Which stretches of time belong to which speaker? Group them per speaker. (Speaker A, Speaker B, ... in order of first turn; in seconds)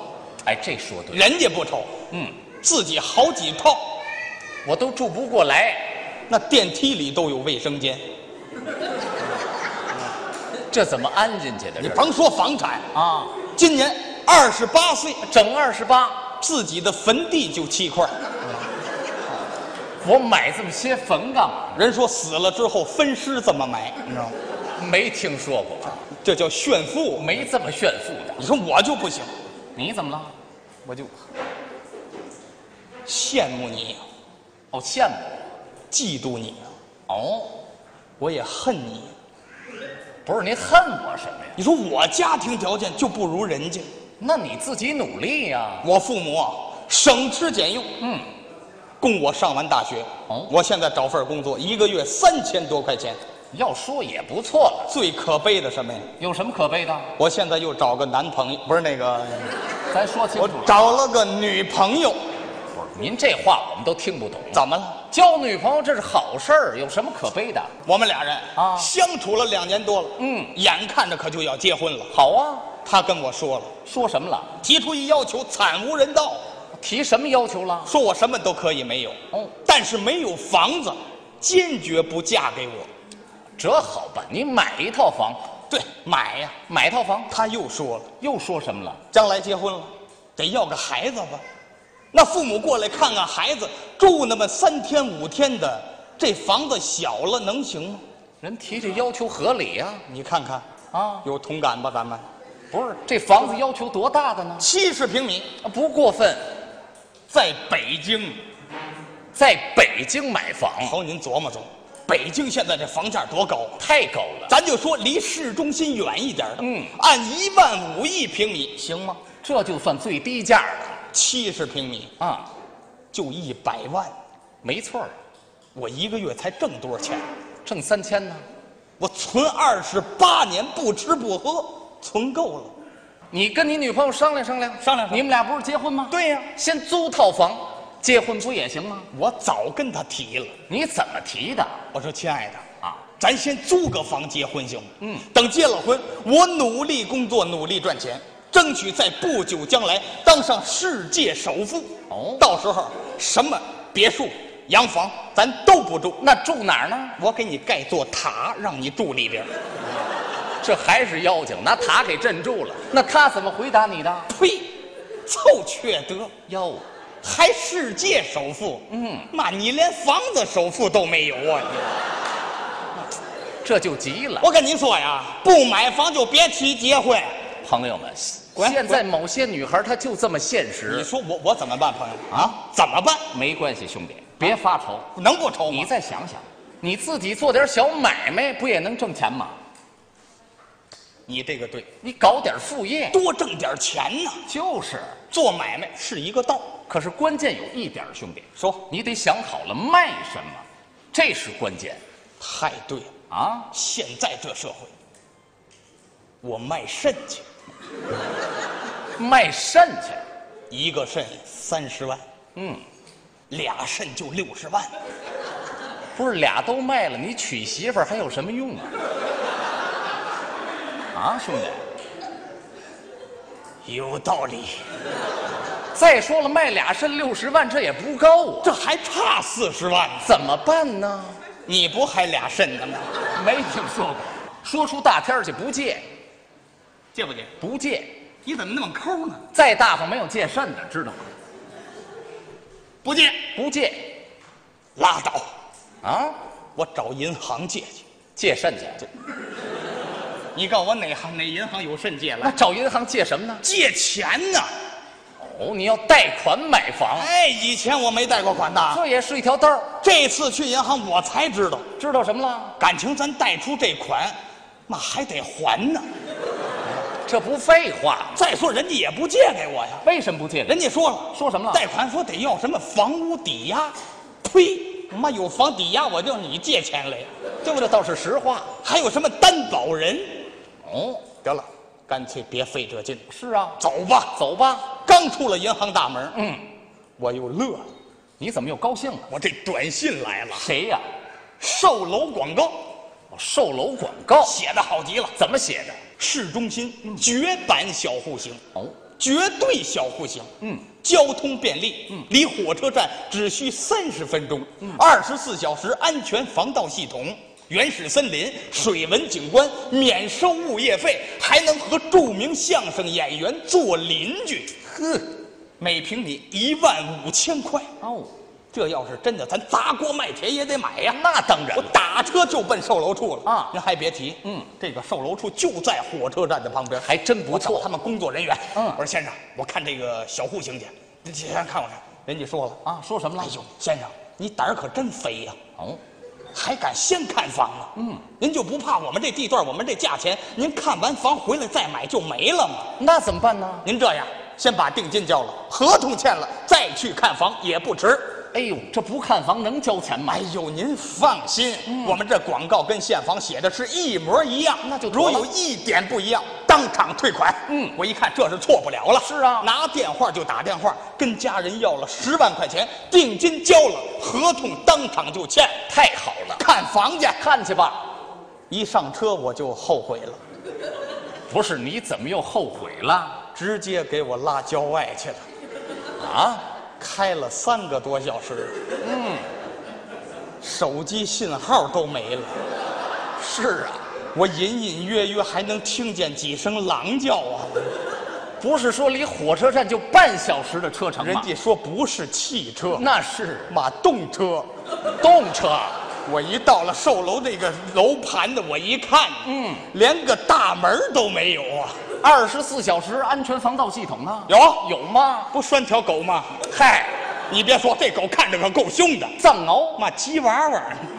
Speaker A: 0.5-1.2, 4.7-6.0, 10.7-12.1, 12.9-13.4, 15.2-16.3, 20.0-21.8, 24.8-26.0, 27.2-28.4, 29.8-30.3, 34.7-35.5, 37.1-37.6, 40.2-41.6, 44.2-45.9, 48.0-48.3, 50.3-50.5, 53.5-54.9, 56.2-57.1, 59.9-61.0, 62.7-67.7, 68.6-68.9, 70.2-70.5, 72.1-72.7, 73.8-74.5, 76.8-77.9, 83.6-85.5, 86.7-87.3, 88.2-89.0, 98.4-100.0, 100.9-101.3, 102.7-104.7, 105.6-106.5, 109.3-111.0, 113.8-114.5, 116.6-116.9, 119.4-121.0, 122.2-122.5, 124.6-125.1, 127.7-128.4, 133.3-139.1, 140.7-141.8, 152.1-152.4, 156.2-157.2, 160.6-164.3, 166.5-166.8, 168.9-169.3, 173.6-174.5, 177.6-181.1, 183.3-185.1, 185.7-189.6, 192.0-193.2, 194.5-195.2, 196.9-202.0, 203.3-203.7, 209.2-210.2, 212.6-212.8, 216.2-218.9, 221.1-221.8, 225.9-228.8, 230.2-231.4, 233.3-236.1, 237.6-238.1, 239.5-241.3, 243.6-244.2, 246.0-246.4, 248.4-249.1, 252.4-253.7, 255.4-257.3, 258.9-259.9, 262.0-262.8, 267.1-268.4, 270.0-270.8, 271.3-271.8, 277.6-278.8, 280.9-281.2, 283.3-283.8, 284.3-284.9, 286.4-286.6, 288.4-289.3, 290.5-291.1, 293.3-294.6, 295.4-296.0, 314.8-315.4, 318.0-318.3, 321.1-322.0, 323.5-323.7, 327.0-327.9, 328.8-329.0, 332.9-333.6, 338.0-338.2, 343.0-343.9, 348.5-350.4, 351.9-352.2, 354.8-355.5, 357.7-357.9, 359.2-359.7, 365.9-366.6, 367.4-368.0, 371.5-373.4, 376.2-376.6, 379.0-379.5, 383.4-384.0, 388.6-391.5, 392.9-393.8, 395.2-396.0, 399.4-399.9, 402.2-405.5, 406.7-407.1, 409.4-410.0
Speaker B: 1.1-2.0, 2.6-3.8, 6.3-8.0, 11.8-12.9, 13.5-15.2, 16.4-18.6, 21.8-24.3, 26.2-27.4, 28.4-29.3, 30.9-31.1, 33.1-34.0, 35.9-36.7, 38.2-39.1, 41.6-43.9, 45.8-47.9, 49.0-53.2, 54.9-56.1, 57.2-59.5, 60.4-62.2, 64.5-65.0, 67.8-72.1, 72.8-73.7, 74.6-76.4, 77.8-82.9, 85.7-86.6, 87.3-88.1, 89.1-91.4, 92.1-98.0, 100.1-100.7, 101.2-102.2, 104.6-105.5, 107.3-108.4, 110.8-113.8, 114.5-119.2, 121.1-122.1, 123.1-124.1, 125.8-127.2, 129.0-132.7, 134.8-135.2, 136.1-136.5, 139.1-140.6, 141.9-142.7, 143.2-156.2, 157.2-159.5, 164.3-166.3, 167.2-171.9, 174.4-177.4, 178.6-179.0, 180.9-183.3, 185.2-185.9, 191.3-191.9, 193.1-194.4, 195.3-196.7, 198.6-198.8, 202.4-203.1, 203.7-204.9, 206.4-207.4, 210.7-212.2, 213.5-214.9, 223.8-224.8, 228.6-230.3, 231.7-233.2, 237.1-237.5, 238.4-239.4, 243.0-243.5, 245.0-245.5, 246.8-248.1, 250.6-252.6, 253.6-254.7, 257.1-259.0, 260.0-261.9, 262.8-264.4, 264.9-266.1, 268.3-270.0, 270.7-277.3, 278.8-280.4, 281.4-283.3, 283.8-284.4, 285.0-286.4, 287.2-287.9, 289.3-290.7, 291.6-292.8, 294.4-295.4, 296.2-298.6, 299.2-314.7, 315.8-317.9, 318.7-321.2, 321.8-332.8, 333.4-335.6, 336.5-342.9, 343.8-348.4, 350.3-365.8, 366.6-367.4, 368.7-370.4, 373.5-375.4, 377.0-378.8, 380.6-382.6, 384.3-387.9, 391.2-393.1, 393.7-394.7, 396.2-402.0, 404.5-404.9, 405.5-406.6, 407.5-409.4, 410.0-411.1